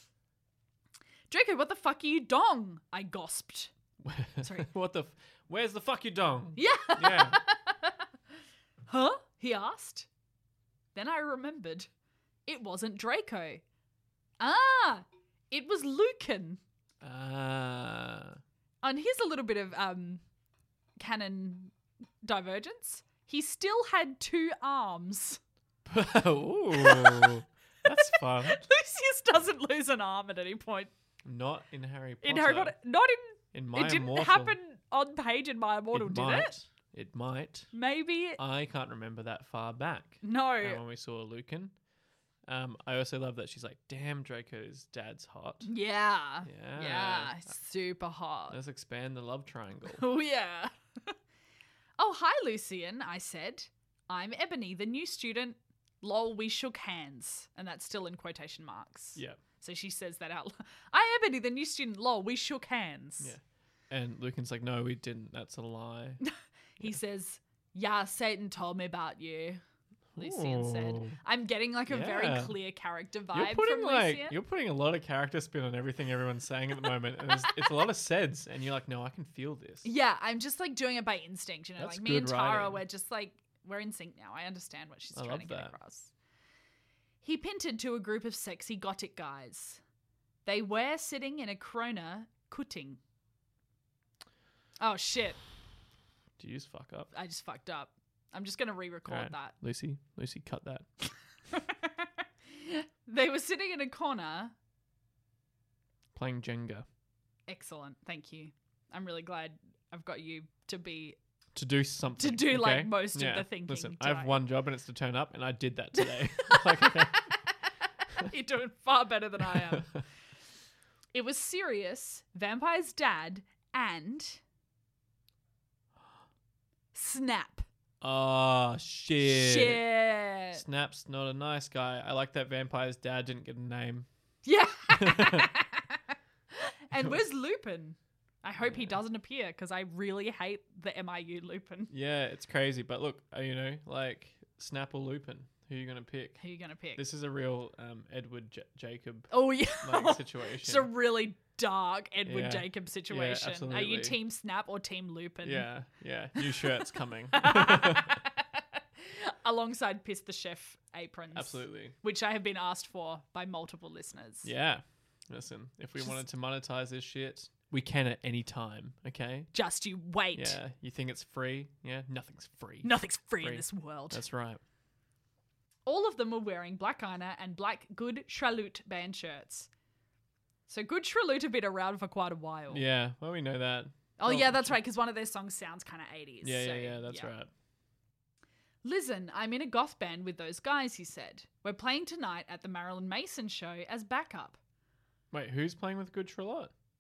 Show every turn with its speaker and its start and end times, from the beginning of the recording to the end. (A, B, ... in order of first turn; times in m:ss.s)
0:01.3-0:03.7 A
0:04.0-0:07.4 B
0:04.4-0:04.7 A
0:06.6-0:08.0 A
0:08.9-0:10.1 A
0:11.0-0:11.9 A
0:12.5-0:13.6 A
0:14.4-0:16.6 A
0:17.0-0:18.4 B
0:18.8-0:20.2 A
0:21.0-0:25.4 A
0:25.9-0:28.6 B
0:26.8-0:27.3 A
0:28.0-0:30.9 A
0:31.2-0:32.8 B
0:32.2-0:36.5 A
0:33.5-0:34.6 B
0:35.9-0:37.7 B
0:37.7-0:38.4 A
0:38.4-0:41.7 B
0:40.2-0:40.8 A
0:42.5-0:45.7 B
0:45.7-0:48.6 A
0:46.4-0:47.4 B
0:48.5-0:50.0 B
0:49.9-0:51.1 A
0:52.0-1:03.4 A
1:03.2-1:06.2 B
1:06.2-1:09.6 A
1:10.2-1:11.2 B
1:10.2-1:14.4 A
1:11.9-1:12.6 B
1:13.3-1:19.9 B
1:19.8-1:26.1 A
1:21.8-1:22.8 B
1:25.1-1:25.8 B
1:27.2-1:29.8 A
1:30.4-1:33.0 A
1:34.8-1:35.4 A
1:36.4-1:37.1 B
1:37.1-1:39.5 A
1:39.1-1:40.9 B
1:41.5-1:44.6 A
1:46.1-1:46.9 B
1:47.5-1:51.2 A
1:51.6-1:57.3 B
1:52.2-1:54.4 A
1:56.5-1:57.5 A
1:58.2-1:59.9 A
1:59.4-2:00.0 B
2:01.1-2:04.4 A
2:06.9-2:07.7 A
2:08.0-2:09.8 B
2:09.2-2:10.6 A
2:10.5-2:14.1 B
2:14.4-2:16.0 A
2:14.9-2:15.5 B
2:16.5-2:21.9 A
2:17.0-2:17.2 B
2:18.6-2:19.0 B
2:21.9-2:26.4 B
2:26.4-2:27.0 A
2:27.0-2:30.9 B
2:29.3-2:35.7 A
2:32.2-2:34.2 B
2:35.4-2:38.2 B
2:36.4-2:44.5 A
2:41.3-2:42.0 B
2:44.4-2:49.5 B
2:49.5-2:50.6 A
2:50.4-2:54.6 B
2:52.8-2:54.2 A
2:55.9-2:59.7 A
3:00.7-3:02.8 A
3:02.7-3:04.8 B
3:04.2-3:07.3 A
3:06.4-3:07.5 B
3:08.8-3:14.6 A
3:15.3-3:16.7 B